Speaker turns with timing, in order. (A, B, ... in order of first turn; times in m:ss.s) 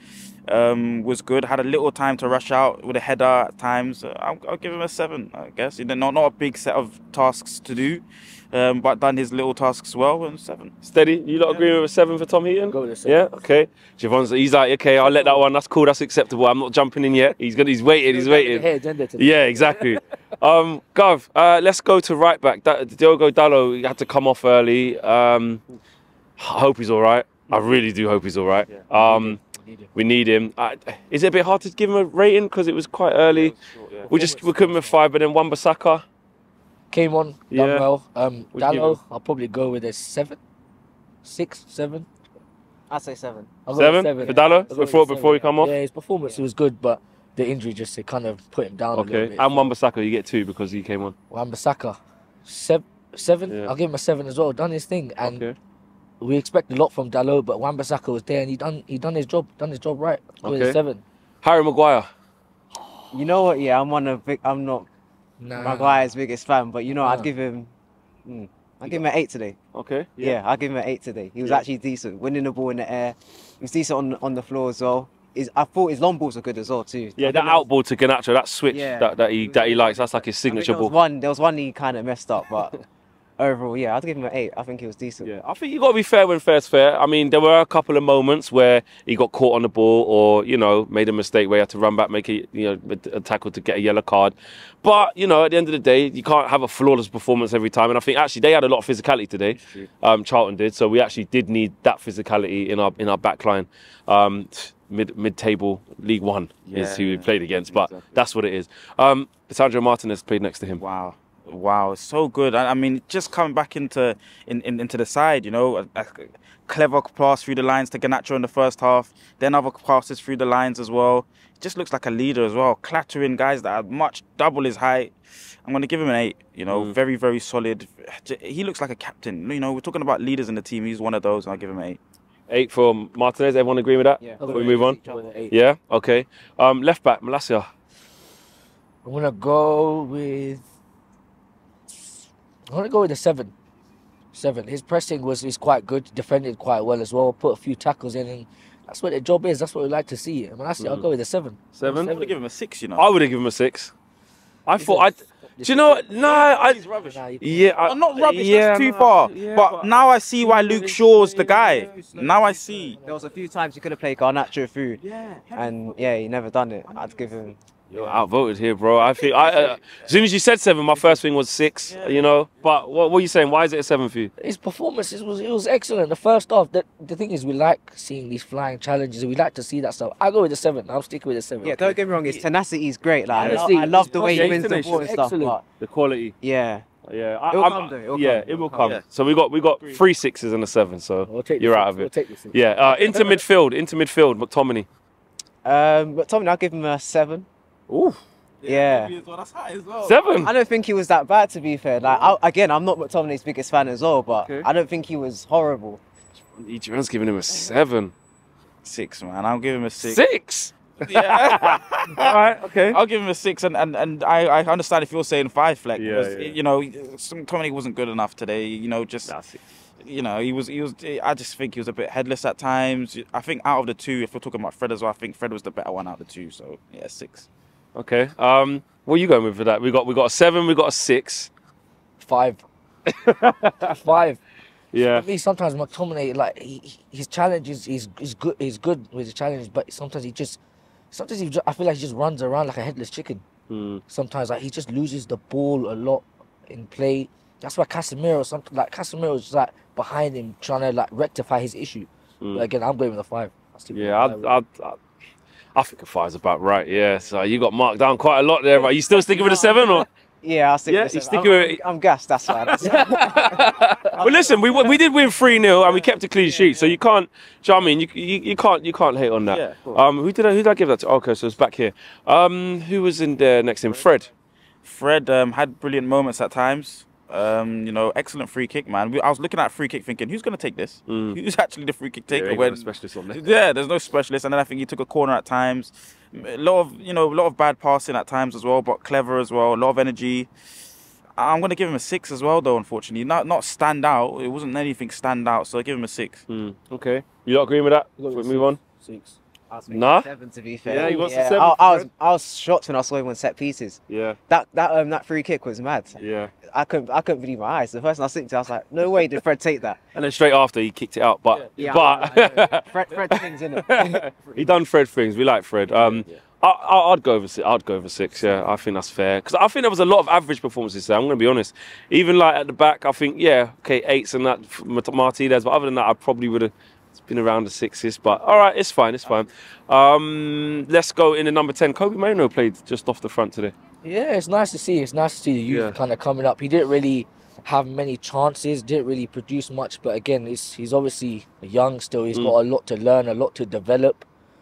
0:00.5-0:10.7 A
0:10.8-0:18.6 B
0:12.7-0:13.3 C
0:15.0-0:15.4 C
0:18.1-0:20.0 C
0:19.2-0:25.6 B
0:26.4-0:29.4 B
0:28.9-0:29.8 C
0:29.9-0:33.6 B
0:33.2-0:34.1 A
0:34.0-0:35.0 C
0:34.1-0:36.0 B
0:36.9-0:40.4 C
0:37.5-0:37.8 B
0:38.5-0:39.0 B
0:41.2-0:42.1 C
0:42.9-0:43.5 D
0:43.7-0:49.7 C
0:43.7-0:45.7 B
0:44.2-0:44.7 D
0:48.9-0:51.1 B
0:51.3-0:55.5 C
0:55.2-0:55.6 B
0:56.2-1:01.0 C
1:00.4-1:00.8 B
1:01.4-1:02.1 B
1:03.1-1:04.9 D
1:05.4-1:06.1 C
1:05.6-1:07.7 D
1:08.2-1:09.6 D
1:09.7-1:10.4 B
1:10.2-1:17.7 D
1:17.2-1:20.9 B
1:18.7-1:22.8 D
1:23.4-1:25.3 D
1:25.2-1:50.8 B
1:39.5-1:39.9 A
1:46.7-1:48.2 A
1:50.8-2:12.0 A
2:12.5-2:15.0 B
2:14.2-2:15.3 D
2:14.4-2:15.6 C
2:15.5-2:17.7 B
2:19.0-2:20.7 C
2:22.7-2:23.5 C
2:24.3-2:32.4 C
2:30.8-2:31.1 B
2:31.7-2:32.2 B
2:32.0-2:33.1 A
2:33.0-2:33.9 B
2:34.7-2:41.9 B
2:34.8-2:36.3 C
2:36.2-2:37.2 A
2:36.9-2:37.8 C
2:37.8-2:43.0 A
2:41.8-2:42.2 D
2:42.7-2:43.1 C
2:43.0-2:45.0 D
2:45.0-2:46.1 A
2:45.5-2:47.6 D
2:46.9-2:47.4 A
2:47.9-2:54.3 B
2:49.2-2:49.8 A
2:51.9-2:52.3 A
2:54.4-3:02.4 C
3:01.6-3:05.6 D
3:03.3-3:05.6 C
3:03.3-3:05.1 B
3:05.8-3:06.4 B
3:06.4-3:06.8 D
3:07.1-3:14.9 B
3:07.5-3:09.0 D
3:08.7-3:09.0 A
3:09.8-3:10.0 A
3:11.2-3:13.4 C
3:15.6-3:17.5 D
3:17.9-3:18.2 B
3:18.6-3:19.1 D
3:18.6-3:20.2 A
3:20.0-3:20.5 B
3:20.4-3:26.0 D
3:24.3-3:24.7 B
3:26.6-3:28.1 B
3:28.8-3:30.2 A
3:30.0-3:33.0 B
3:31.0-3:32.3 A
3:32.9-3:39.3 A
3:36.0-3:36.6 B
3:39.3-3:39.6 B
3:40.0-3:47.5 A
3:48.0-3:51.5 B
3:52.2-3:52.6 C
3:53.1-3:53.9 B
3:53.8-3:54.4 C
3:54.9-3:55.3 B
3:55.1-4:00.6 C
4:01.1-4:03.4 C
4:03.7-4:04.0 B
4:04.1-4:14.6 C
4:12.4-4:12.7 B
4:13.9-4:15.0 B
4:15.7-4:20.1 B
4:19.2-4:23.6 D
4:20.9-4:21.8 B
4:22.5-4:34.3 B
4:26.4-4:26.9 D
4:29.4-4:29.9 A
4:34.8-4:50.5 A
4:41.1-4:41.4 B
4:42.3-4:43.4 B
4:51.4-4:56.4 A
4:56.5-4:58.8 B
4:58.2-4:59.4 C
4:59.7-5:10.0 D
4:59.9-5:00.3 B
5:00.8-5:02.1 B
5:04.1-5:04.4 B
5:06.2-5:06.5 B
5:10.1-5:33.7 B
5:11.8-5:14.3 D
5:16.0-5:16.2 D
5:34.0-5:44.2 C
5:35.7-5:36.0 B